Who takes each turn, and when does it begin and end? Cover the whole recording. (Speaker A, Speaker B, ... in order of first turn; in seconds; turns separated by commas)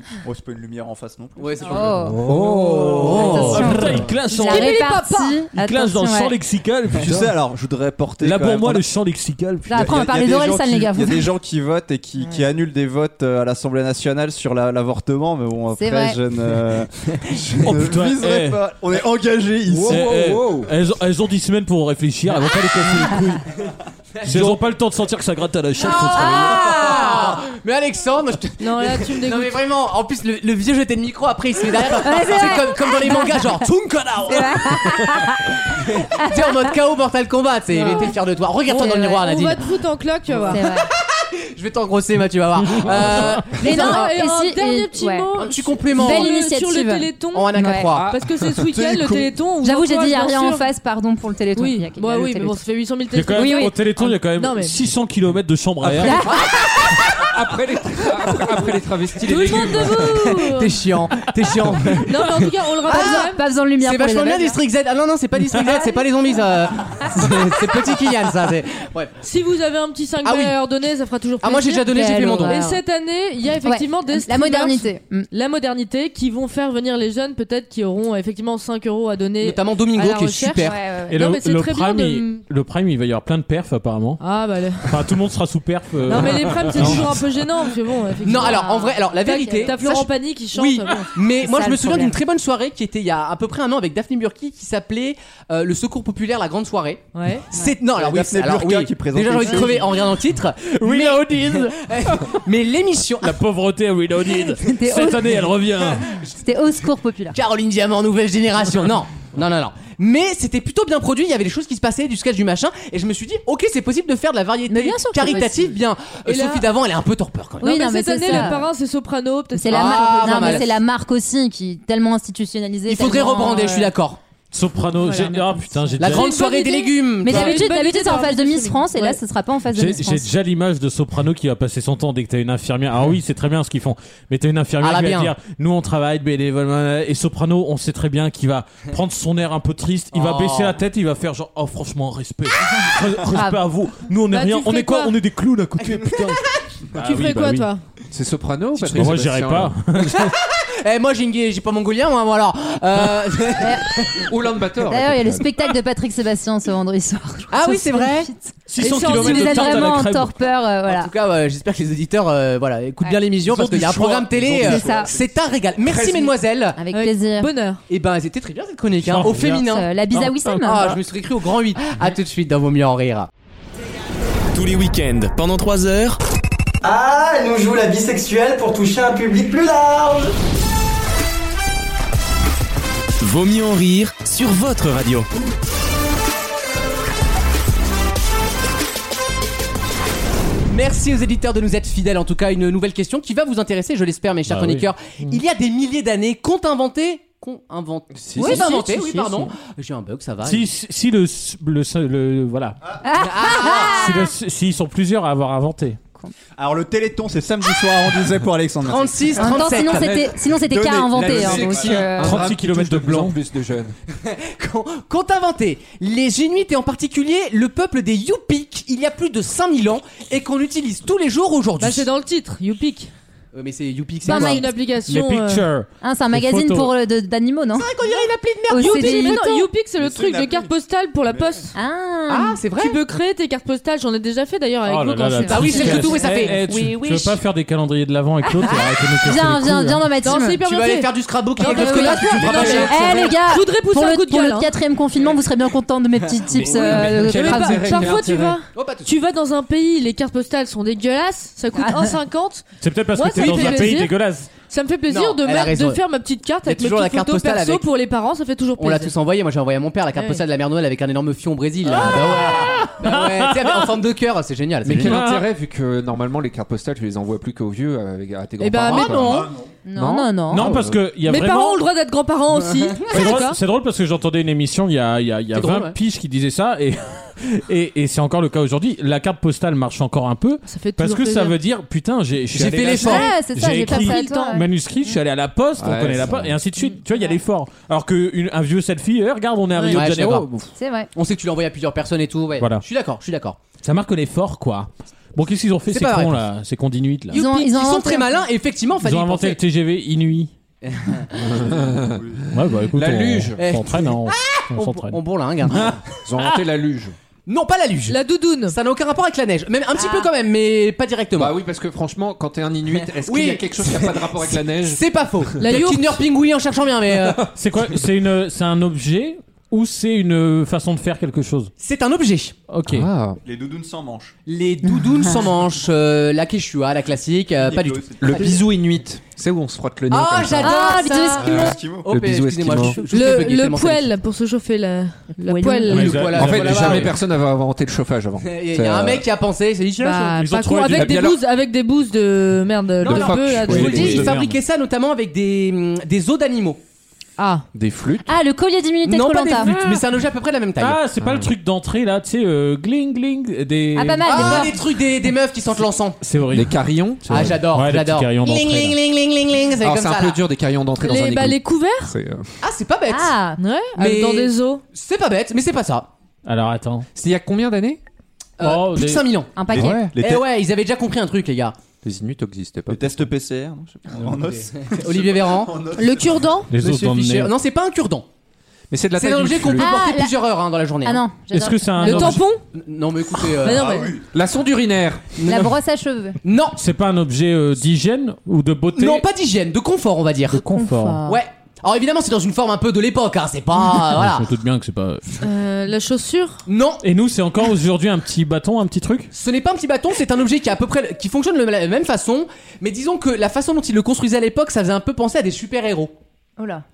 Speaker A: 0.2-3.8, Speaker B: 1.4-3.8, Speaker C: 1.7-2.2, Speaker D: 2.1-4.9, Speaker C: 3.1-6.3, Speaker E: 4.5-5.3, Speaker D: 5.5-7.3, Speaker A: 6.9-8.8, Speaker D: 8.2-9.8, Speaker C: 9.7-11.3, Speaker A: 9.7-20.1, Speaker C: 15.8-16.2, Speaker D: 17.6-18.6, Speaker F: 19.6-20.7, Speaker D: 19.9-23.4, Speaker B: 24.1-24.6, Speaker D: 24.2-26.7, Speaker B: 25.8-35.0, Speaker C: 26.1-27.4, Speaker E: 28.6-29.5, Speaker C: 32.0-33.6, Speaker C: 34.3-35.6, Speaker B: 35.7-39.7, Speaker C: 36.1-36.7, Speaker E: 37.7-38.1, Speaker C: 37.8-38.1, Speaker C: 38.7-39.2, Speaker E: 38.7-40.6, Speaker C: 40.5-40.9, Speaker B: 40.5-44.1, Speaker C: 43.5-45.3, Speaker E: 43.5-50.6, Speaker B: 45.4-46.3, Speaker C: 45.9-47.9, Speaker B: 47.3-48.1, Speaker F: 47.9-48.6, Speaker A: 48.6-49.3, Speaker C: 49.6-52.6, Speaker E: 51.5-54.8, Speaker D: 53.1-56.2, Speaker C: 53.3-53.7, Speaker C: 56.0-57.1, Speaker B: 56.3-57.0, Speaker F: 57.3-60.3, Speaker E: 59.2-60.8, Speaker B: 59.3-69.2, Speaker E: 62.0-63.4, Speaker C: 62.9-64.6, Speaker C: 65.5-66.0, Speaker E: 69.2-82.4, Speaker B: 70.2-70.5, Speaker B: 71.4-72.6, Speaker C: 71.8-72.8, Speaker C: 73.6-75.3, Speaker B: 79.4-80.8, Speaker C: 80.6-81.2, Speaker D: 81.1-84.2, Speaker E: 84.2-85.0, Speaker D: 84.8-87.2, Speaker E: 86.1-88.7, Speaker B: 88.2-103.4, Speaker C: 88.3-89.8, Speaker E: 89.2-91.1, Speaker C: 91.4-92.2, Speaker E: 97.1-97.5, Speaker A: 97.9-100.0, Speaker D: 100.6-102.4, Speaker D: 103.2-106.0, Speaker C: 104.6-105.4, Speaker C: 106.3-107.4, Speaker B: 107.3-118.6, Speaker C: 114.7-115.7, Speaker E: 116.2-116.7, Speaker C: 117.6-118.7, Speaker E: 117.6-120.7, Speaker C: 119.5-123.9, Speaker B: 119.7-120.8, Speaker B: 122.8-124.2, Speaker D: 124.5-126.3, Speaker E: 125.0-125.3, Speaker C: 125.4-126.7, Speaker B: 126.0-127.7, Speaker E: 126.6-129.2, Speaker C: 127.2-130.3, Speaker D: 129.7-146.4, Speaker B: 134.8-135.3, Speaker B: 140.1-140.8, Speaker C: 143.3-143.6, Speaker E: 144.3-145.1, Speaker B: 145.8-146.7, Speaker D: 146.9-147.7, Speaker E: 147.0-147.8, Speaker F: 148.1-149.8, Speaker D: 148.9-150.3, Speaker B: 150.0-154.3, Speaker F: 154.2-155.5, Speaker C: 154.9-161.1, Speaker B: 157.5-158.3, Speaker D: 158.7-160.3, Speaker E: 158.8-159.9, Speaker B: 160.9-166.8, Speaker D: 163.4-164.9, Speaker F: 164.6-165.2, Speaker C: 164.6-165.1, Speaker F: 165.8-166.4, Speaker C: 166.8-167.5, Speaker E: 166.9-167.8, Speaker B: 167.9-169.9, Speaker D: 169.0-170.9, Speaker C: 169.4-170.9, Speaker B: 170.6-173.3, Speaker G: 174.5-176.2, Speaker H: 176.8-180.3, Speaker G: 183.2-185.3, Speaker B: 190.7-200.7, Speaker D: 194.5-195.4, Speaker D: 198.3-199.5, Speaker C: 198.4-198.7, Speaker D: 200.4-202.8, Speaker C: 203.0-204.3, Speaker B: 203.1-204.0, Speaker D: 203.8-206.0, Speaker A: 206.6-212.2, Speaker B: 208.8-210.1, Speaker C: 209.4-212.4, Speaker F: 211.1-213.9, Speaker D: 212.1-213.3, Speaker B: 214.2-222.1, Speaker E: 221.8-223.1, Speaker B: 223.5-224.7, Speaker C: 224.2-224.7, Speaker E: 224.2-225.7, Speaker D: 225.1-226.9, Speaker C: 226.0-227.9, Speaker B: 227.7-229.4, Speaker C: 228.7-229.7, Speaker E: 228.7-231.7, Speaker A: 230.0-230.7, Speaker A: 231.3-231.6, Speaker C: 231.7-232.6, Speaker B: 232.3-233.0, Speaker E: 232.8-236.4, Speaker D: 234.8-240.0, Speaker C: 235.3-236.5, Speaker B: 235.5-237.4, Speaker C: 238.4-240.6, Speaker E: 240.2-244.7, Speaker B: 240.6-243.4, Speaker C: 241.6-248.1, Speaker F: 242.3-242.9, Speaker B: 246.4-247.1, Speaker F: 246.5-248.6, Speaker E: 246.9-252.6, Speaker B: 248.7-249.1, Speaker C: 251.8-252.1, Speaker D: 252.8-254.5, Speaker E: 253.1-259.1, Speaker B: 253.4-254.0, Speaker B: 255.1-256.0, Speaker B: 256.6-257.8, Speaker B: 258.8-265.1, Speaker E: 260.1-260.4, Speaker D: 262.5-263.7, Speaker F: 264.8-271.0, Speaker D: 265.0-265.4, Speaker E: 268.6-269.5, Speaker C: 269.8-270.7, Speaker D: 270.5-271.8, Speaker E: 271.3-273.6, Speaker B: 272.8-273.1, Speaker D: 273.1-290.7, Speaker B: 275.5-275.9, Speaker E: 280.6-281.6, Speaker B: 282.5-283.3, Speaker C: 282.8-285.2, Speaker E: 283.7-284.5, Speaker F: 285.8-286.6, Speaker E: 289.7-290.0, Speaker B: 289.9-290.5, Speaker C: 290.7-291.1, Speaker B: 291.1-293.6, Speaker D: 292.6-292.8, Speaker D: 293.8-297.4, Speaker B: 295.9-296.4, Speaker B: 297.3-299.6, Speaker C: 297.3-298.4, Speaker D: 299.0-300.5, Speaker B: 300.8-301.3, Speaker F: 301.4-303.6, Speaker A: 302.1-302.4, Speaker D: 302.5-306.6, Speaker B: 303.6-306.1, Speaker F: 306.3-307.1, Speaker B: 307.4-311.6, Speaker E: 308.1-308.8, Speaker C: 310.0-310.3, Speaker F: 311.4-315.0, Speaker B: 312.9-317.5, Speaker E: 315.6-316.2, Speaker D: 317.5-321.7, Speaker B: 321.8-322.6, Speaker D: 322.7-323.1, Speaker F: 322.9-323.4, Speaker A: 323.4-324.3, Speaker B: 324.5-328.6, Speaker A: 327.6-328.5, Speaker F: 328.2-333.0, Speaker B: 330.1-334.1, Speaker C: 330.6-331.6, Speaker A: 331.5-332.1, Speaker E: 333.1-336.2, Speaker C: 335.4-336.1, Speaker B: 335.8-337.1, Speaker D: 335.9-337.2, Speaker F: 336.2-339.2, Speaker B: 338.4-340.4, Speaker E: 340.0-344.2, Speaker D: 340.2-341.2, Speaker F: 340.9-341.4, Speaker B: 343.0-346.8, Speaker F: 343.0-344.3, Speaker D: 343.5-344.6, Speaker E: 347.4-347.6, Speaker F: 347.7-348.4, Speaker C: 348.2-349.8, Speaker B: 349.0-351.0, Speaker D: 349.6-350.0, Speaker D: 350.8-354.7, Speaker C: 353.9-354.8, Speaker B: 354.2-356.2, Speaker D: 356.2-359.0, Speaker F: 356.5-357.5, Speaker B: 357.3-360.4, Speaker F: 359.8-362.4, Speaker E: 361.0-362.1, Speaker B: 362.6-363.4, Speaker C: 363.1-363.6, Speaker E: 363.6-364.8, Speaker B: 364.0-366.1, Speaker D: 366.4-367.1, Speaker F: 367.1-368.0, Speaker B: 368.6-371.8, Speaker D: 368.6-369.3, Speaker C: 369.5-370.1, Speaker A: 369.7-370.4, Speaker F: 369.7-370.2, Speaker F: 372.0-373.2, Speaker A: 372.9-376.6, Speaker B: 374.2-375.8, Speaker E: 375.9-376.7, Speaker D: 376.7-377.5, Speaker B: 376.8-378.2, Speaker F: 378.9-379.9, Speaker B: 379.1-381.2, Speaker C: 379.8-380.3, Speaker C: 381.0-382.4, Speaker D: 381.5-382.4, Speaker E: 382.0-382.6, Speaker B: 382.7-384.1, Speaker E: 383.6-384.1, Speaker A: 383.7-384.2, Speaker F: 384.2-385.4, Speaker B: 385.4-385.7, Speaker C: 385.4-386.4, Speaker B: 386.4-386.8, Speaker D: 386.8-389.2, Speaker B: 388.9-390.6, Speaker D: 390.5-391.2, Speaker C: 390.7-391.4, Speaker B: 391.2-394.5, Speaker D: 394.1-395.2, Speaker E: 395.4-396.6, Speaker B: 396.6-397.0, Speaker D: 397.0-399.3, Speaker B: 399.3-406.1, Speaker C: 406.6-406.8